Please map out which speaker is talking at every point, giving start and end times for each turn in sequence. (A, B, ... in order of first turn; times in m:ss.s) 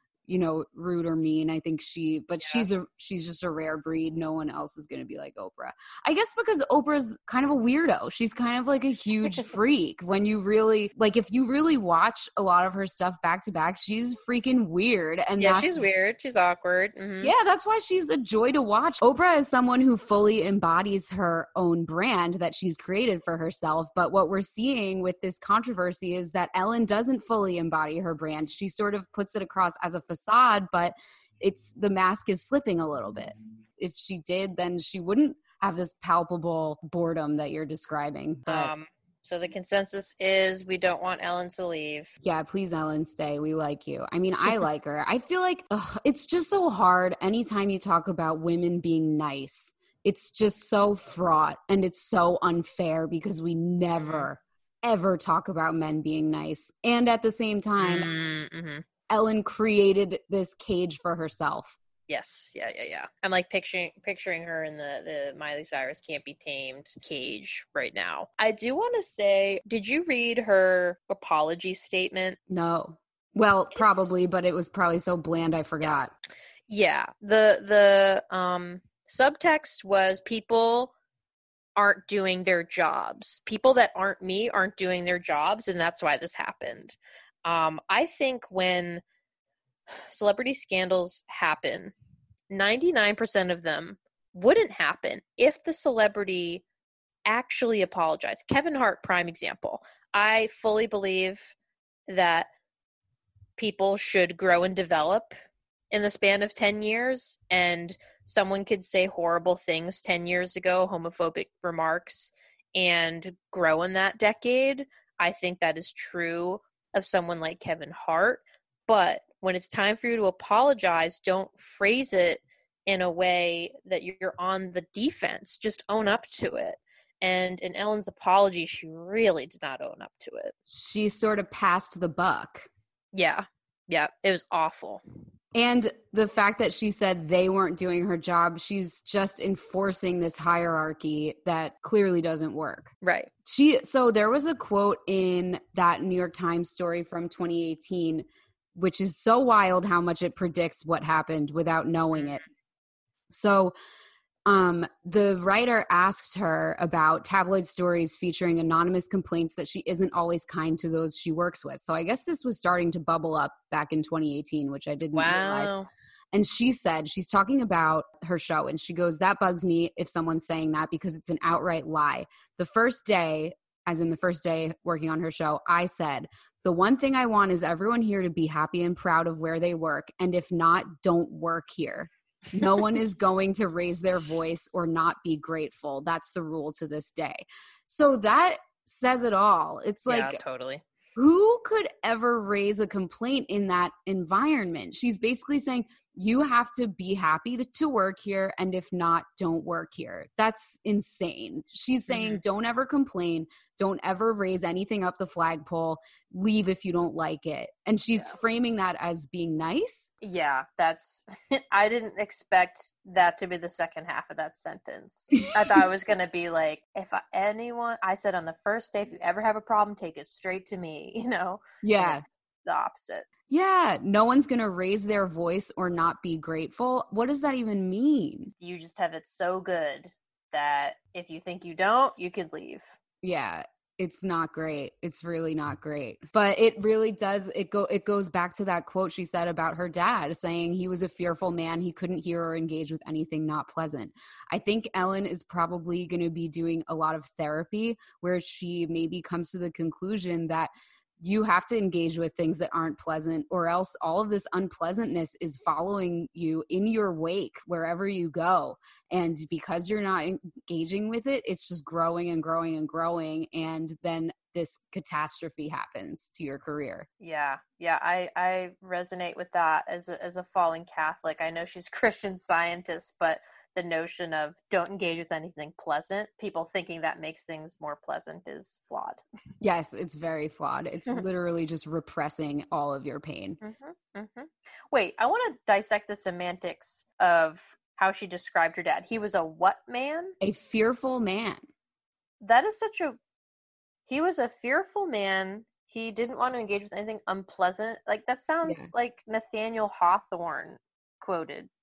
0:00.3-0:15.8 A
0:15.4-0:17.3 B
0:17.2-0:38.7 A
0:38.4-0:42.1 B
0:42.2-0:58.1 A
0:54.0-0:54.3 B
0:57.8-0:58.8 B
0:59.1-1:01.8 A
1:02.1-1:12.4 B
1:12.5-1:16.1 A
1:13.7-1:14.1 B
1:16.7-1:20.9 B
1:21.8-1:29.0 B
1:30.1-1:31.9 B
1:32.5-1:36.6 B
1:37.2-1:41.5 B
1:42.1-1:42.5 B
1:43.6-1:45.3 B
1:45.9-2:10.5 B
2:10.7-2:12.7 A
2:13.1-2:15.0 B
2:15.5-2:22.9 A
2:23.0-2:23.3 B
2:23.4-2:32.4 A
2:33.3-2:33.7 A
2:34.4-2:45.7 A
2:45.1-2:45.9 B
2:46.3-3:10.4 A
3:10.0-3:10.8 B
3:11.2-3:30.1 A
3:22.1-3:22.4 B
3:30.2-3:43.2 B
3:41.8-3:42.2 A
3:43.5-3:48.5 A
3:48.6-3:53.0 B
3:53.2-4:27.1 A
4:27.2-4:39.2 B
4:39.6-4:43.6 A
4:43.6-4:50.3 B
4:50.4-4:51.7 A
4:52.4-4:53.2 B
4:54.1-5:01.7 B
4:58.6-4:58.9 A